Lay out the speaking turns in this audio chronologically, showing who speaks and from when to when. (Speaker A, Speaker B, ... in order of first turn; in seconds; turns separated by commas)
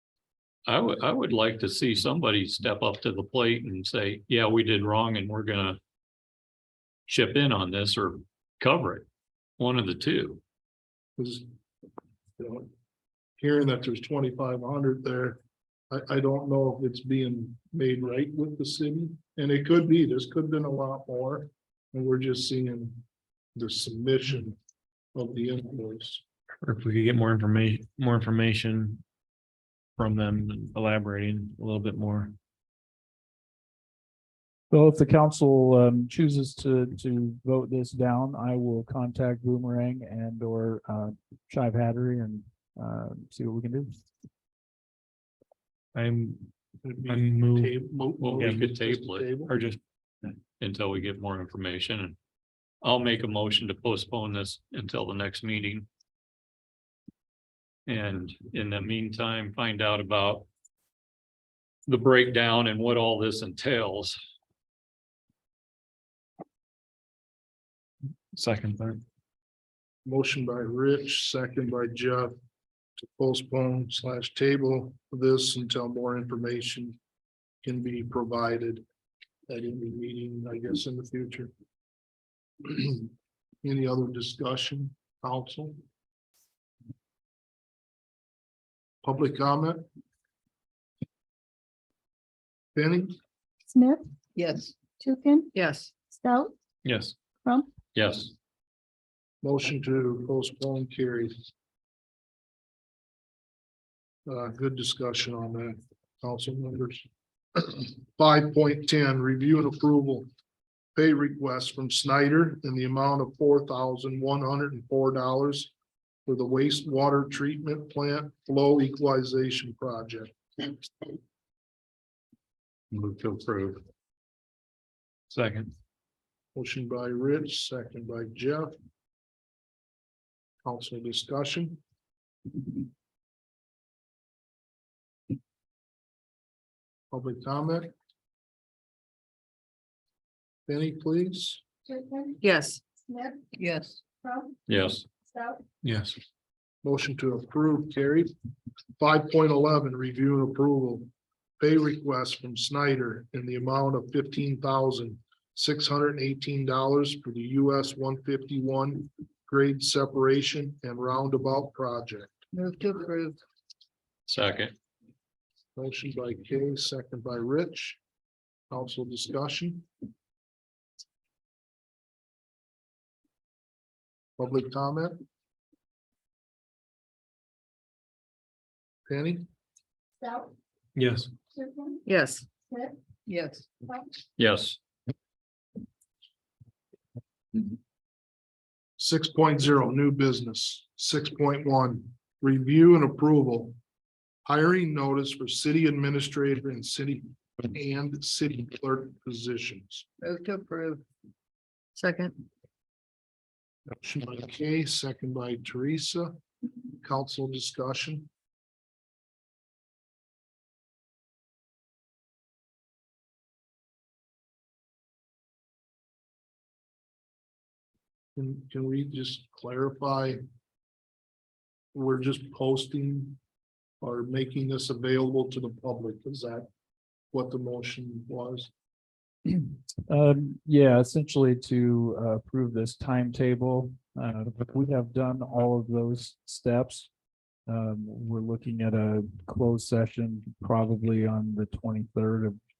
Speaker A: 0.7-5.8, Speaker A: 7.1-9.0, Speaker A: 9.6-10.4, Speaker B: 11.2-11.4, Speaker B: 12.4-12.7, Speaker B: 13.4-15.4, Speaker B: 15.9-23.0, Speaker B: 23.6-24.6, Speaker B: 25.1-26.2, Speaker C: 26.6-29.0, Speaker C: 30.0-32.4, Speaker D: 34.7-44.0, Speaker C: 45.9-46.5, Speaker B: 46.8-49.6, Speaker C: 47.0-47.8, Speaker A: 48.2-49.4, Speaker C: 48.4-48.7, Speaker C: 49.5-49.8, Speaker A: 50.6-52.1, Speaker A: 52.8-55.9, Speaker A: 57.9-60.5, Speaker A: 61.9-64.2, Speaker C: 68.3-69.0, Speaker B: 70.0-72.3, Speaker B: 73.0-77.0, Speaker B: 77.6-78.8, Speaker B: 79.5-81.5, Speaker B: 82.6-83.1, Speaker B: 83.6-85.8, Speaker B: 89.0-89.9, Speaker B: 92.7-93.2, Speaker E: 93.7-94.0, Speaker F: 94.4-94.8, Speaker E: 95.0-95.5, Speaker F: 95.5-95.9, Speaker E: 96.1-96.5, Speaker C: 96.8-97.1, Speaker E: 97.4-97.7, Speaker A: 97.9-98.3, Speaker B: 99.4-101.3, Speaker B: 104.2-107.0, Speaker B: 107.5-110.3, Speaker B: 111.0-115.7, Speaker B: 116.2-120.7, Speaker A: 122.9-123.8, Speaker C: 125.3-125.7, Speaker B: 126.5-128.7, Speaker B: 130.6-131.8, Speaker B: 137.1-137.9, Speaker B: 140.7-141.6, Speaker E: 141.9-142.4, Speaker F: 142.4-142.8, Speaker E: 143.1-143.5, Speaker F: 143.6-144.0, Speaker E: 144.2-144.5, Speaker A: 144.7-145.0, Speaker E: 145.3-145.6, Speaker C: 145.8-146.2, Speaker B: 146.8-148.3, Speaker B: 149.0-151.1, Speaker B: 151.6-162.4, Speaker F: 162.5-163.4, Speaker A: 164.3-164.7, Speaker B: 165.8-168.0, Speaker B: 168.7-169.9, Speaker B: 174.4-175.2, Speaker B: 179.1-179.5, Speaker E: 180.2-180.5, Speaker C: 180.9-181.3, Speaker E: 181.6-182.0, Speaker F: 182.1-182.5, Speaker F: 183.3-183.8, Speaker A: 184.4-184.8, Speaker B: 189.0-193.8, Speaker B: 194.4-200.1, Speaker F: 200.2-201.0, Speaker F: 201.9-202.3, Speaker B: 203.9-206.4, Speaker B: 207.0-208.3, Speaker B: 218.3-220.4, Speaker B: 221.9-223.4, Speaker B: 224.0-226.7, Speaker B: 227.3-228.7, Speaker D: 230.1-237.1, Speaker D: 237.7-242.6